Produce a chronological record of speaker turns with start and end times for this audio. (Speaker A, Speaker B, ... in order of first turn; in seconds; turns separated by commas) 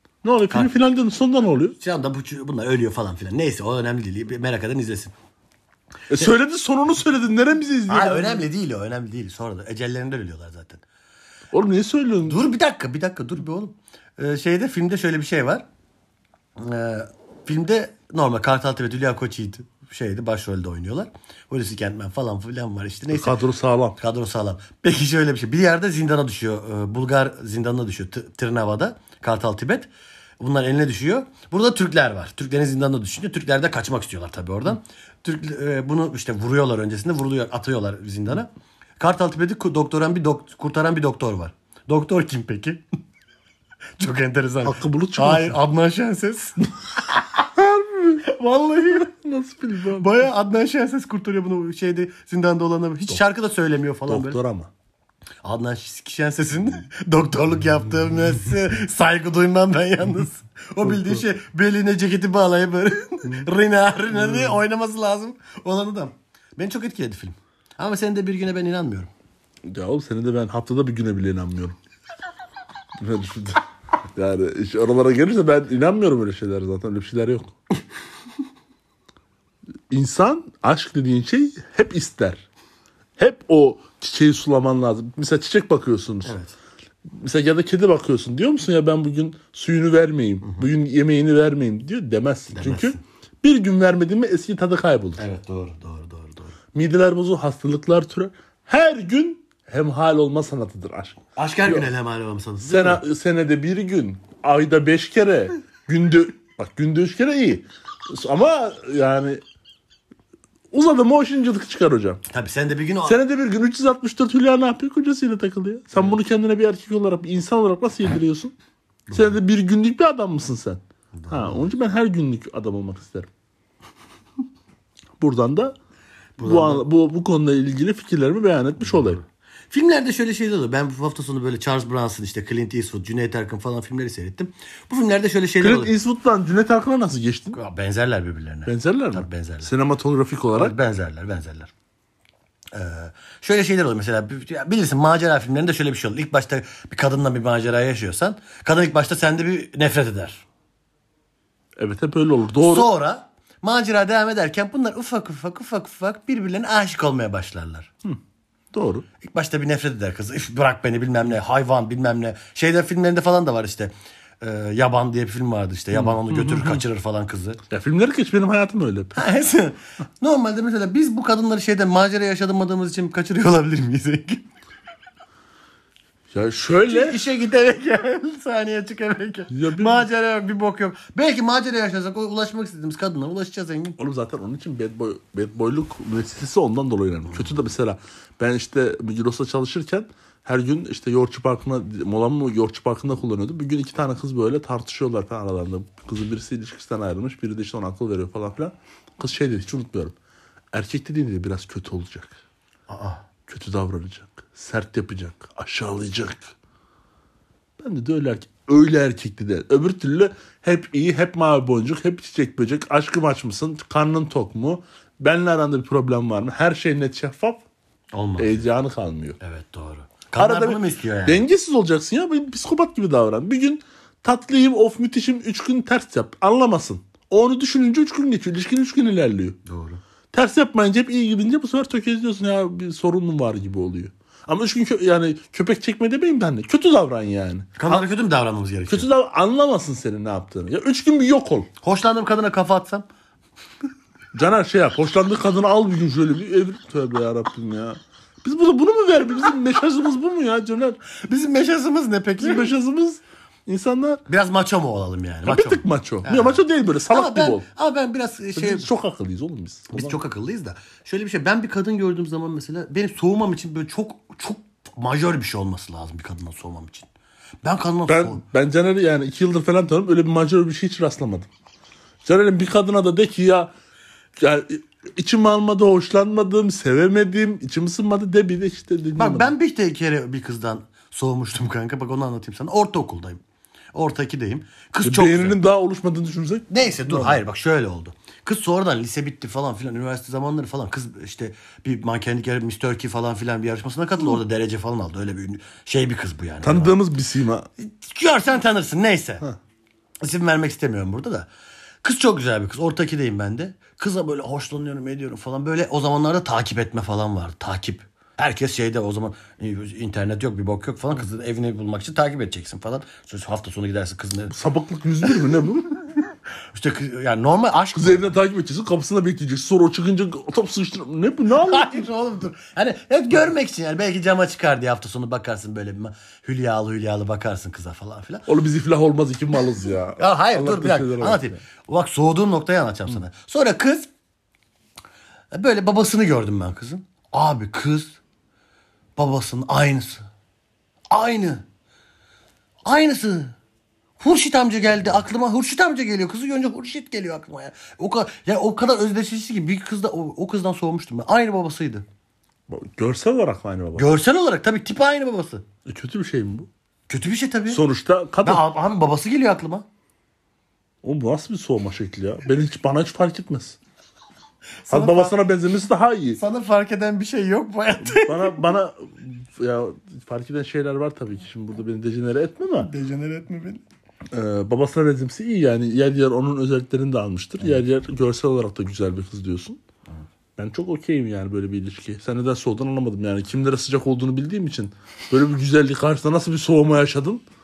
Speaker A: 0.2-1.8, Speaker B: 1.8-5.1, Speaker A: 6.1-8.4, Speaker B: 7.9-10.8, Speaker A: 11.5-12.4, Speaker B: 12.2-15.6, Speaker B: 16.6-23.4, Speaker A: 23.1-24.0, Speaker B: 24.0-29.9, Speaker B: 30.4-42.8, Speaker B: 44.0-46.7, Speaker A: 44.6-45.6, Speaker A: 47.5-48.2, Speaker B: 48.2-49.1, Speaker A: 49.0-50.1, Speaker B: 50.0-54.4, Speaker A: 54.1-54.7, Speaker B: 55.4-69.1, Speaker A: 60.9-61.2, Speaker A: 64.1-64.6, Speaker A: 69.7-71.8, Speaker A: 73.0-73.6, Speaker A: 74.2-77.5, Speaker A: 79.9-82.4, Speaker A: 83.2-86.3, Speaker B: 86.2-86.5, Speaker A: 87.1-95.2, Speaker B: 92.5-93.0, Speaker B: 95.2-96.5, Speaker A: 96.7-101.9, Speaker B: 101.3-103.0, Speaker A: 102.6-109.4, Speaker A: 110.7-112.2, Speaker B: 112.3-113.2, Speaker A: 113.0-118.5, Speaker B: 119.1-119.4, Speaker A: 119.1-123.3, Speaker B: 121.1-121.7, Speaker A: 125.2-125.7, Speaker B: 126.4-126.8, Speaker A: 126.4-129.2, Speaker B: 128.9-135.9, Speaker A: 135.6-137.6, Speaker B: 137.5-139.7, Speaker A: 138.7-140.8, Speaker B: 140.5-141.7, Speaker B: 142.7-150.4, Speaker A: 151.8-152.9, Speaker B: 152.6-157.9, Speaker A: 158.7-159.0, Speaker B: 159.2-167.6, Speaker A: 165.9-166.8, Speaker A: 167.7-169.2, Speaker B: 169.1-174.4, Speaker A: 176.3-177.2, Speaker B: 176.8-184.0, Speaker A: 179.5-180.1, Speaker A: 184.0-200.1, Speaker A: 200.7-202.3, Speaker B: 202.9-203.2, Speaker A: 203.5-206.5, Speaker A: 207.8-217.6, Speaker B: 218.1-218.7, Speaker A: 218.4-219.4, Speaker B: 219.4-221.5, Speaker A: 220.4-229.6, Speaker B: 229.6-230.0, Speaker A: 230.3-238.1, Speaker B: 237.8-239.1, Speaker A: 238.9-241.7, Speaker B: 241.8-243.1, Speaker A: 244.3-251.0, Speaker B: 251.2-252.7, Speaker A: 252.4-254.2, Speaker B: 254.3-258.9, Speaker A: 255.4-257.6, Speaker A: 258.6-260.2, Speaker B: 259.9-267.1, Speaker B: 267.6-268.4, Speaker A: 268.1-271.5, Speaker A: 272.2-273.7, Speaker A: 274.4-279.5, Speaker B: 279.1-283.4, Speaker B: 283.9-285.6, Speaker A: 285.0-287.4, Speaker B: 286.7-297.0, Speaker A: 296.6-297.7, Speaker B: 297.8-299.4, Speaker B: 300.2-301.5, Speaker B: 302.0-314.5, Speaker A: 314.5-315.9, Speaker B: 315.2-315.6, Speaker B: 316.7-318.3, Speaker A: 317.9-322.1, Speaker B: 321.5-328.5, Speaker A: 328.4-331.6, Speaker B: 330.1-334.1, Speaker B: 335.5-338.2, Speaker B: 339.1-340.2, Speaker B: 341.1-341.6, Speaker B: 342.8-343.5, Speaker B: 344.2-352.0, Speaker A: 352.7-354.1, Speaker B: 353.9-355.6, Speaker A: 355.9-356.7, Speaker B: 357.1-357.8, Speaker A: 357.7-358.6, Speaker B: 358.4-359.9, Speaker A: 361.0-363.8, Speaker B: 364.8-365.4, Speaker A: 364.9-366.4, Speaker B: 366.4-368.6, Speaker A: 368.0-372.9, Speaker B: 372.8-373.8, Speaker A: 374.3-379.8, Speaker A: 380.6-387.4